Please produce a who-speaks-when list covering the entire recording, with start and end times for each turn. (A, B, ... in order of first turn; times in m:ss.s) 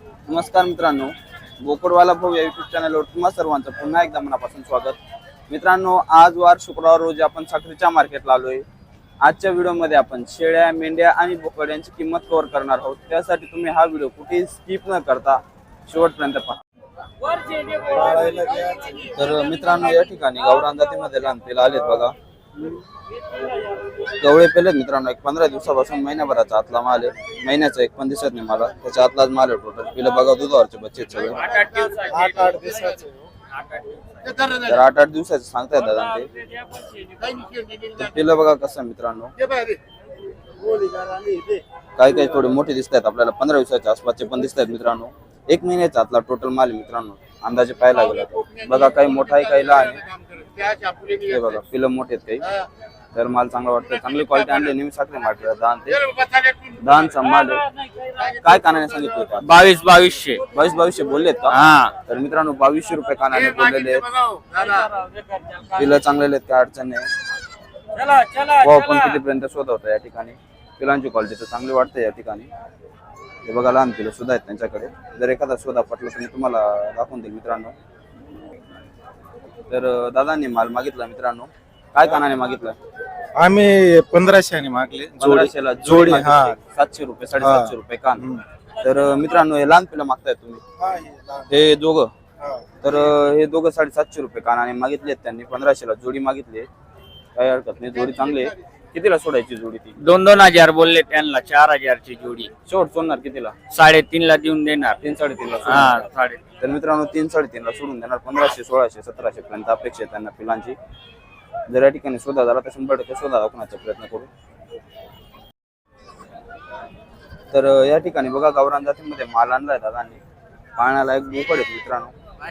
0:00.3-0:05.0 A
0:05.5-0:08.6 A
0:09.2-0:16.6 A
0:17.8-0:19.0 B
0:19.0-0:22.1 A
0:24.2-0:31.6 A
0:31.9-0:33.1 B
0:34.5-0:36.3 A
0:37.9-0:39.3 A
0:40.6-0:41.6 B
0:42.0-0:50.1 A
0:51.0-0:52.5 A
0:53.1-0:56.0 A
0:56.8-0:57.6 A
0:58.3-0:59.5 A
0:59.5-1:00.4 C
1:00.5-1:04.1 A
1:01.5-1:01.9 C
1:05.7-1:07.1 A
1:08.3-1:12.5 A
1:13.4-1:17.7 A
1:19.7-1:22.8 A
1:23.4-1:26.6 B
1:25.2-1:28.3 A
1:27.4-1:28.4 B
1:28.8-1:30.6 A
1:30.9-1:31.4 B
1:31.5-1:32.1 A
1:32.8-1:36.7 A
1:37.4-1:39.9 A
1:40.0-1:42.5 C
1:42.7-1:43.6 A
1:43.7-1:45.0 C
1:45.0-1:46.0 A
1:45.7-1:46.4 C
1:46.6-1:50.8 A
1:51.7-1:54.3 A
1:57.5-2:00.2 A
2:00.8-2:02.1 A